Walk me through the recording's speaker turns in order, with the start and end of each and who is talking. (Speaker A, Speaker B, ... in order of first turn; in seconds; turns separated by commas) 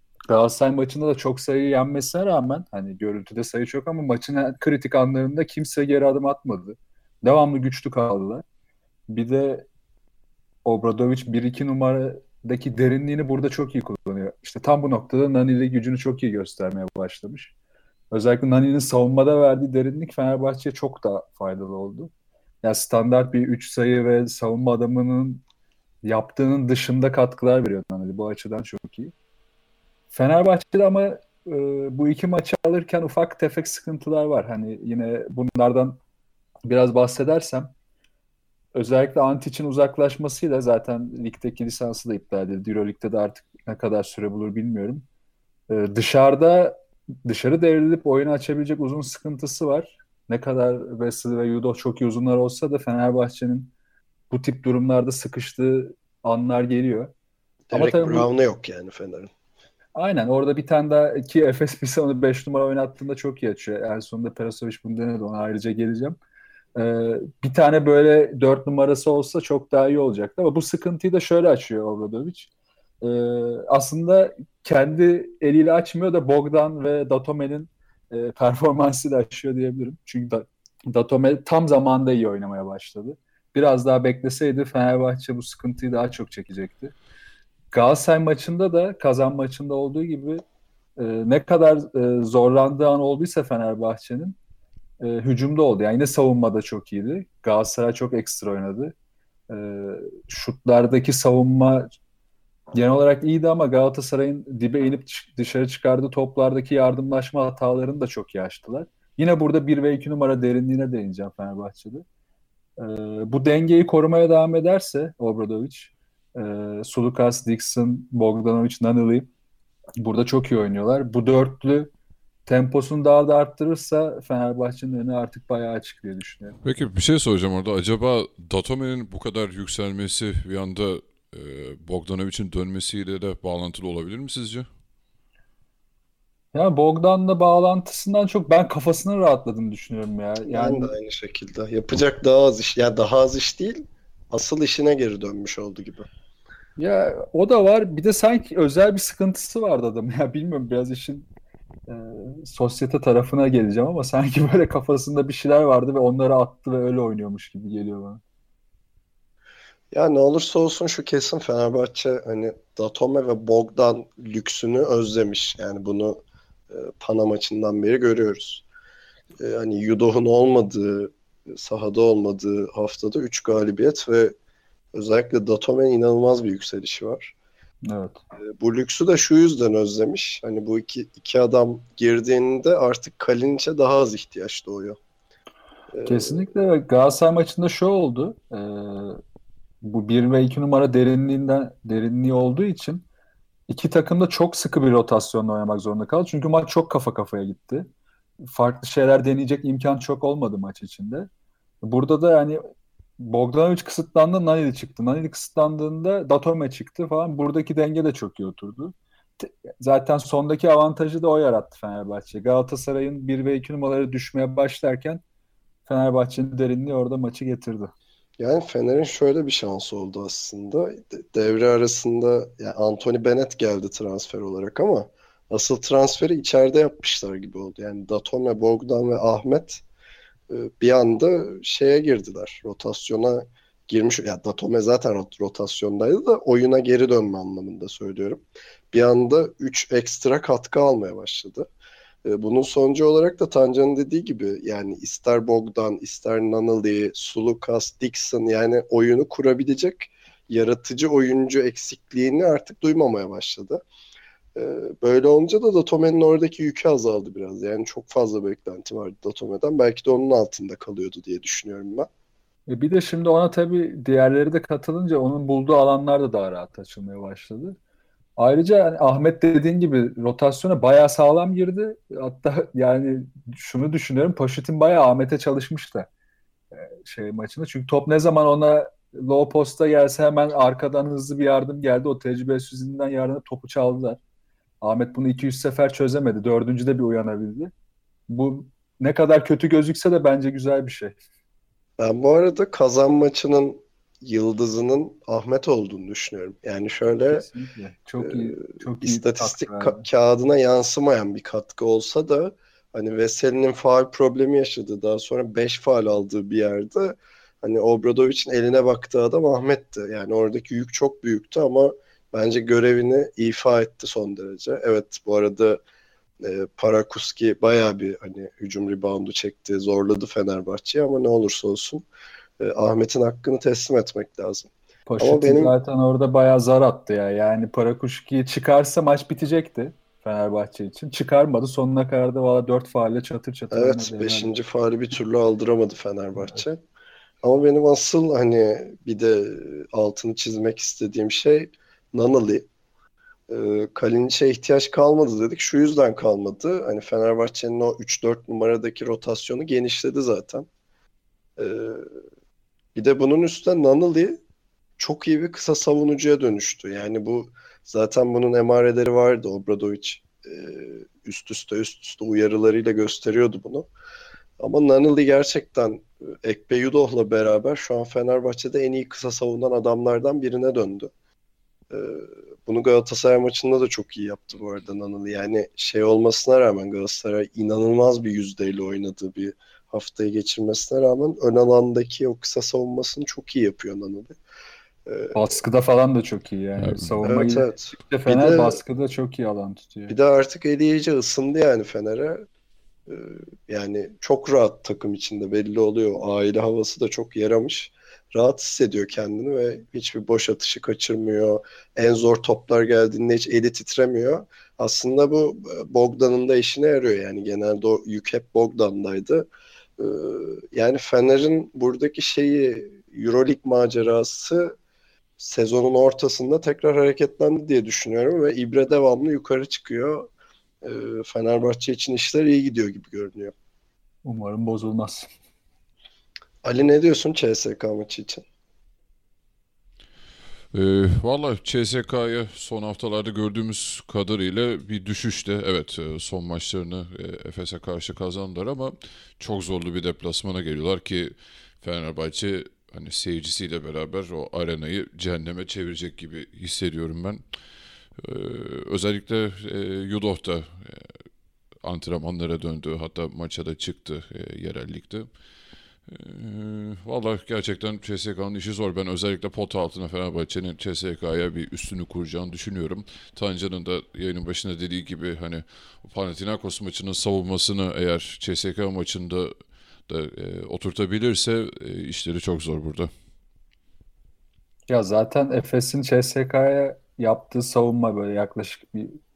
Speaker A: 0.3-8.4, Speaker A: 9.1-9.7, Speaker A: 10.6-17.5, Speaker A: 18.1-22.1, Speaker A: 22.6-25.4, Speaker A: 26.0-29.1, Speaker A: 30.1-36.0, Speaker A: 36.6-37.7, Speaker A: 38.7-45.0, Speaker A: 45.7-53.7, Speaker A: 54.3-57.1, Speaker B: 57.7-59.3, Speaker A: 57.7-58.3, Speaker A: 59.9-66.2, Speaker A: 66.8-72.5, Speaker A: 73.0-86.9, Speaker A: 87.7-90.4, Speaker A: 91.0-94.4, Speaker A: 95.0-98.9, Speaker A: 99.5-101.9, Speaker A: 102.7-112.0, Speaker A: 112.8-119.3, Speaker A: 120.0-121.9, Speaker A: 122.5-126.6, Speaker C: 126.6-134.7, Speaker A: 136.5-140.9, Speaker B: 140.5-146.1, Speaker A: 146.8-151.3, Speaker A: 151.9-158.2, Speaker B: 159.9-166.2, Speaker B: 166.7-168.6, Speaker B: 169.4-174.3, Speaker B: 174.9-177.3, Speaker A: 177.9-178.2, Speaker B: 178.6-185.0, Speaker B: 185.9-186.4, Speaker A: 186.0-189.2, Speaker A: 189.8-193.0, Speaker A: 193.7-197.9, Speaker A: 198.4-201.3, Speaker A: 201.8-202.6, Speaker A: 203.2-215.2, Speaker A: 215.8-217.9, Speaker B: 218.4-229.8, Speaker B: 230.5-241.7, Speaker B: 242.2-253.8, Speaker B: 254.5-262.1, Speaker A: 262.7-267.8, Speaker A: 268.4-276.1, Speaker A: 276.7-284.2, Speaker A: 284.8-287.7, Speaker A: 288.3-291.1, Speaker B: 292.0-297.5, Speaker A: 297.3-300.0, Speaker B: 298.2-315.8, Speaker B: 316.4-322.0, Speaker B: 322.6-325.7, Speaker A: 325.1-334.5, Speaker B: 333.7-336.8, Speaker B: 337.4-342.7, Speaker B: 343.5-350.7, Speaker B: 351.6-352.1, Speaker B: 352.9-354.4, Speaker B: 355.0-363.9, Speaker B: 364.6-371.1, Speaker B: 371.9-384.3, Speaker B: 385.1-385.5, Speaker A: 385.3-390.1, Speaker C: 386.8-387.1, Speaker B: 387.2-388.8, Speaker B: 390.1-392.4, Speaker B: 393.1-414.7, Speaker B: 415.4-420.3, Speaker B: 420.8-423.5, Speaker A: 424.2-425.3, Speaker B: 426.6-428.4, Speaker C: 430.7-447.4, Speaker C: 448.2-451.2, Speaker C: 451.8-455.3, Speaker C: 456.1-469.5, Speaker C: 470.1-473.1, Speaker A: 474.9-479.2